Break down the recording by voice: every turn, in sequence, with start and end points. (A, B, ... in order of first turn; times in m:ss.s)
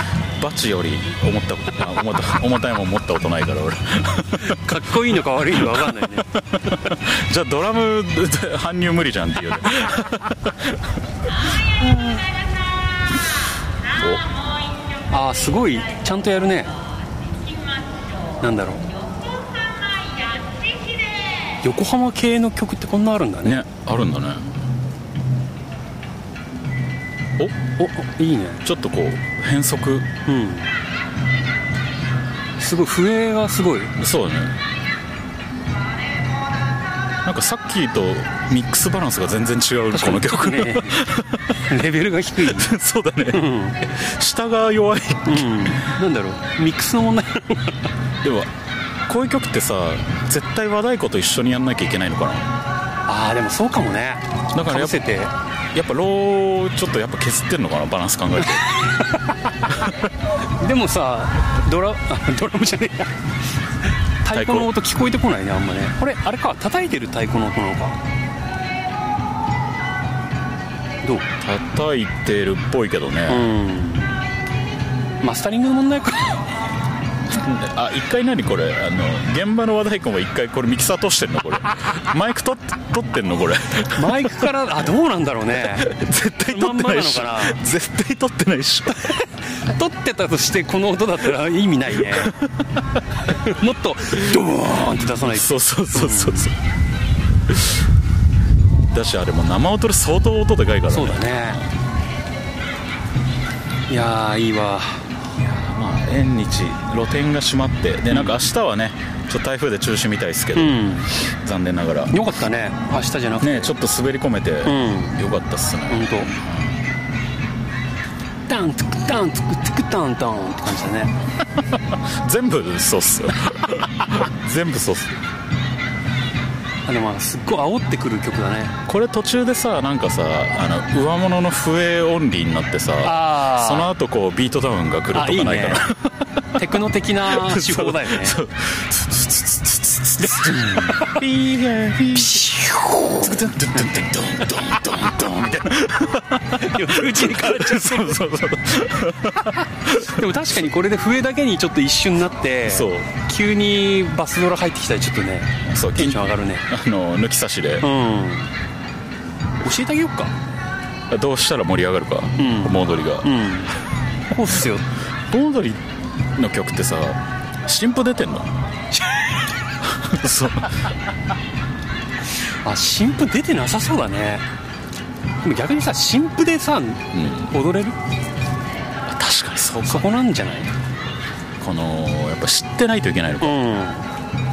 0:00.4-0:04.8 A
0:04.4-0:06.4 B
0:05.6-0:10.9 A
0:14.0-0:14.2 A
0:15.1-0:16.7 B
0:18.4-0:18.9 B
0:21.6-0:23.6 B
0:23.4-0:24.5 A
0:27.8-0:28.6 B
0:28.6-0:30.1 A
0:30.3-0:30.7 B
0:32.6-0:34.0 B
0:34.0-0:34.6 A
0:37.2-0:41.7 A
0:39.9-0:42.7 B
0:42.4-0:45.9 A
0:43.3-0:43.8 B
0:45.2-0:47.8 B
0:48.2-0:48.5 A
0:49.1-0:52.4 A
0:53.1-0:55.3 B
0:54.5-0:55.1 A
0:55.7-0:58.7 A
0:58.6-0:59.2 B
1:00.6-1:03.2 B
1:04.2-1:08.0 B
1:04.3-1:04.7 A
1:11.4-1:13.5 A
1:13.3-1:14.1 B
1:15.2-1:16.4 B
1:17.3-1:24.3 A
1:24.0-1:25.9 B
1:25.8-1:29.2 A
1:26.5-1:27.6 B
1:29.0-1:32.4 B
1:32.1-1:32.8 A
1:33.2-1:36.5 B
1:35.2-1:36.5 A
1:38.9-1:41.4 A
1:40.9-1:41.6 B
1:43.9-1:45.0 B
1:45.4-1:52.2 A
1:48.1-1:48.5 B
1:50.6-1:51.1 B
1:52.1-1:53.7 B
1:53.4-1:56.8 A
1:54.6-1:55.2 B
1:55.9-1:56.3 B
1:58.5-2:01.1 B
2:01.7-2:05.2 A
2:06.9-2:08.8 B
2:08.9-2:16.0 A
2:13.0-2:13.9 B
2:15.1-2:15.9 B
2:16.5-2:18.4 B
2:17.2-2:22.5 A
2:20.2-2:21.2 B
2:22.1-2:23.4 B
2:23.2-2:30.2 A
2:26.5-2:28.2 B
2:29.8-2:36.7 B
2:32.7-2:33.1 A
2:35.7-2:37.9 A
2:37.8-2:38.5 B
2:39.6-2:40.3 B
2:41.1-2:43.3 A
2:42.4-2:43.8 B
2:44.3-2:44.9 B
2:45.3-2:45.8 A
2:46.4-2:48.5 A
2:49.8-2:50.8 A
2:52.6-2:54.4 B
2:55.4-2:58.0 B
2:57.1-2:57.5 A
2:59.1-3:00.2 A
2:59.9-3:00.7 B
3:01.6-3:03.6 A
3:03.4-3:04.1 B